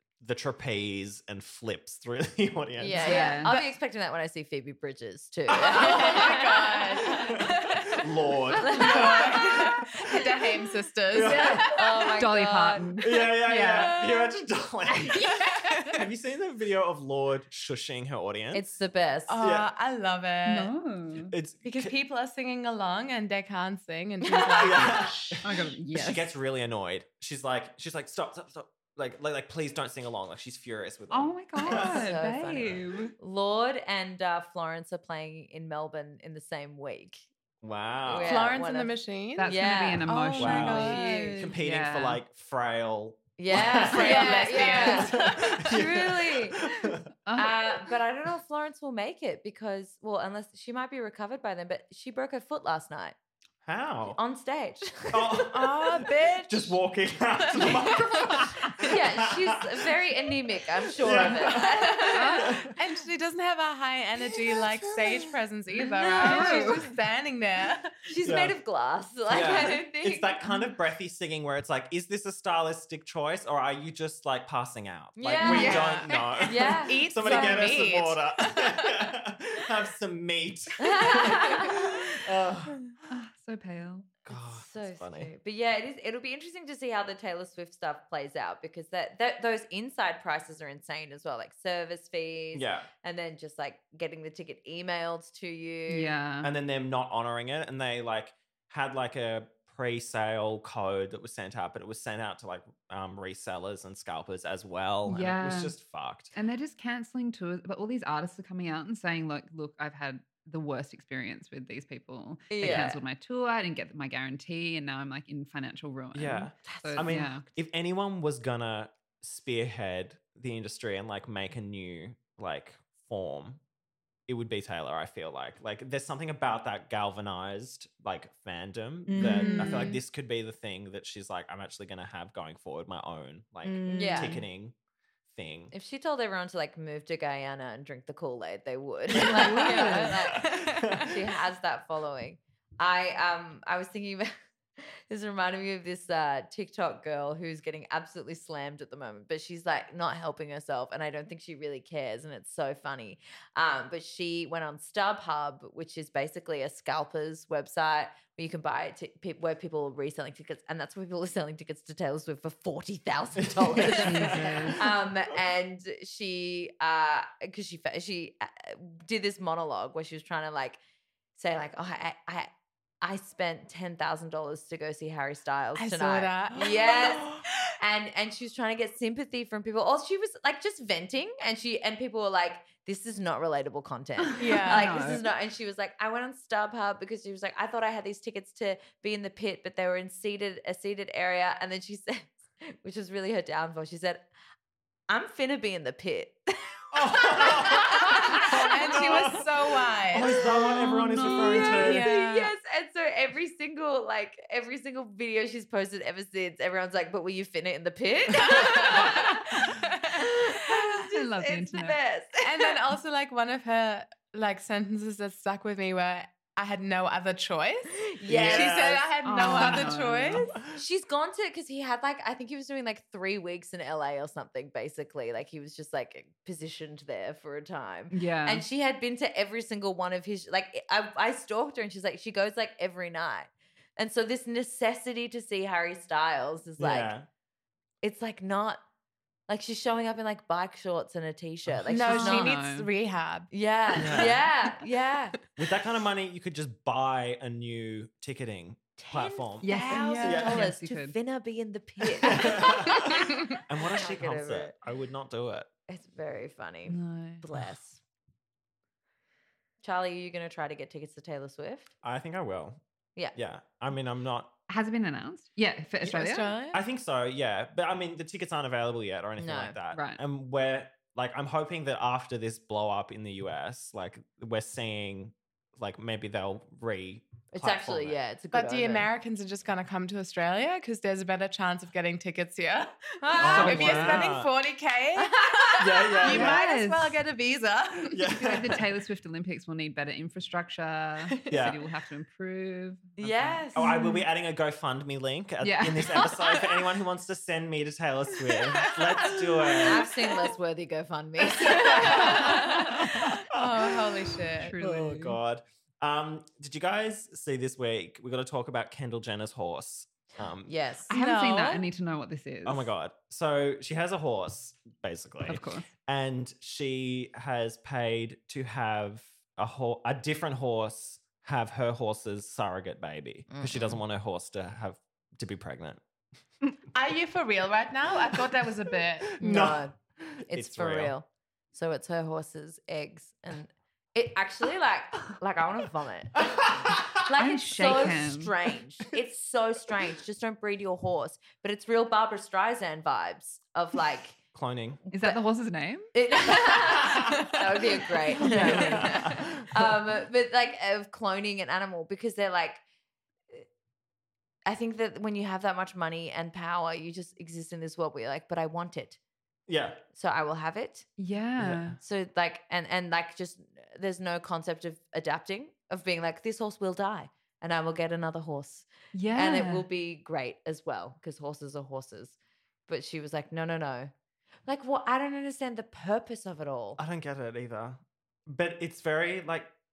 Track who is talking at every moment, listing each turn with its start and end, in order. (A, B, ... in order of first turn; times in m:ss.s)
0:00.2-0:03.2 A
0:02.8-0:07.5 B
0:03.0-0:03.5 C
0:03.0-0:03.7 D
0:05.5-0:06.4 A
0:05.6-0:07.7 D
0:07.0-0:10.4 A
0:08.6-0:09.7 B
0:08.6-0:11.9 D
0:11.1-0:11.8 A
0:11.2-0:13.1 B
0:12.2-0:14.0 C
0:13.0-0:18.6 A
0:15.1-0:16.0 D
0:18.5-0:19.4 B
0:19.3-0:20.7 D
0:19.4-0:19.7 A
0:20.5-0:21.3 C
0:21.2-0:21.9 A
0:21.6-0:25.3 D
0:24.2-0:25.0 B
0:24.6-0:32.2 A
0:25.4-0:26.3 C
0:31.1-0:33.1 C
0:31.6-0:37.3 B
0:37.6-0:38.6 A
0:38.0-0:41.4 B
0:38.2-0:41.6 D
0:39.4-0:42.2 C
0:40.4-0:47.1 A
0:43.4-0:46.6 B
0:43.5-0:45.8 D
0:47.3-0:47.5 C
0:47.4-0:53.2 B
0:53.6-0:54.2 A
0:54.1-0:55.5 B
0:55.1-1:00.0 A
0:55.5-0:56.8 D
0:57.4-0:58.7 D
0:58.8-1:02.4 B
1:01.0-1:02.8 A
1:01.9-1:08.0 D
1:02.1-1:02.6 C
1:05.8-1:07.0 C
1:06.0-1:06.8 B
1:08.1-1:10.5 B
1:08.2-1:08.6 A
1:09.3-1:22.8 A
1:15.2-1:17.6 B
1:15.4-1:16.3 C
1:15.4-1:19.1 D
1:20.8-1:22.0 B
1:23.1-1:24.1 C
1:24.2-1:25.3 A
1:24.3-1:36.1 B
1:32.5-1:32.9 A
1:35.9-1:36.5 C
1:36.4-1:46.3 A
1:45.0-1:45.8 C
1:46.3-1:57.5 C
1:52.5-1:53.0 B
1:52.6-1:52.9 A
1:56.1-2:03.6 A
1:56.7-1:57.2 B
2:04.3-2:14.7 A
2:09.1-2:10.0 C
2:09.2-2:10.0 D
2:13.6-2:14.4 C
2:13.9-2:14.4 B
2:15.3-2:15.7 A
2:15.7-2:20.5 B
2:19.1-2:21.2 A
2:19.2-2:20.2 C
2:19.7-2:21.0 D
2:21.1-2:50.8 B
2:43.4-2:45.0 A
2:43.9-2:44.8 C
2:51.4-2:52.5 B
2:53.0-3:14.3 B
2:55.8-2:57.4 D
3:04.3-3:05.2 C
3:04.4-3:05.2 D
3:15.1-3:19.4 B
3:16.9-3:19.5 A
3:18.3-3:20.4 D
3:20.1-3:22.1 A
3:20.7-3:22.0 C
3:21.2-3:22.5 D
3:21.2-3:32.8 B
3:28.4-3:30.1 D
3:31.0-3:32.0 C
3:32.4-3:40.4 D
3:38.0-3:39.7 B
3:38.2-3:40.8 A
3:39.2-3:40.4 C
3:40.7-3:57.1 B
3:48.1-3:48.6 C
3:56.8-3:57.3 A
3:58.0-3:58.8 B
3:59.5-4:02.6 B
4:01.9-4:03.5 D
4:02.0-4:02.9 C
4:03.5-4:05.4 B
4:04.0-4:04.4 A
4:05.6-4:09.7 A
4:09.0-4:13.2 B
4:09.6-4:11.2 C
4:09.7-4:10.5 D
4:10.2-4:10.6 A
4:12.2-4:15.7 A
4:13.8-4:14.8 B
4:15.9-4:18.0 B
4:16.9-4:17.4 C
4:19.8-4:21.9 B
4:22.0-4:22.8 A
4:23.4-4:24.6 A
4:24.7-4:26.6 C
4:26.0-4:26.8 D
4:26.7-4:38.2 A
4:29.4-4:29.8 B
4:29.9-4:30.2 C
4:37.5-4:39.1 B
4:38.5-4:48.3 D
4:43.2-4:44.3 B
4:43.4-4:44.5 A
4:45.2-4:46.2 B
4:45.8-4:46.6 A
4:46.3-4:47.2 C
4:48.1-4:48.8 A
4:48.4-4:54.2 C
4:51.5-4:51.8 A
4:53.2-4:53.9 B
4:53.8-5:00.2 A
4:55.6-4:56.3 C
4:59.8-5:03.1 B
5:01.6-5:10.8 A
5:03.5-5:04.7 D
5:04.6-5:05.4 C
5:10.6-5:11.1 B
5:11.1-5:11.9 D
5:11.1-5:12.9 C
5:12.6-5:26.0 A
5:15.4-5:15.9 C
5:23.5-5:24.0 B
5:26.9-5:29.7 D
5:29.2-5:31.2 A
5:29.4-5:30.0 B
5:30.5-5:36.4 B
5:36.4-5:37.3 A
5:37.1-5:44.4 B
5:37.3-5:38.5 C
5:44.5-5:45.0 A
5:45.1-5:45.4 B
5:45.1-5:46.1 C
5:46.1-5:52.8 B
5:47.0-5:47.3 A
5:48.4-5:50.0 A
5:48.4-5:49.2 C
5:54.7-5:59.2 B
5:59.7-6:00.0 A
6:00.1-6:01.1 B
6:01.2-6:02.0 C
6:01.6-6:02.0 A
6:02.0-6:14.1 B
6:09.1-6:09.9 C
6:14.7-6:17.0 B
6:17.0-6:19.7 A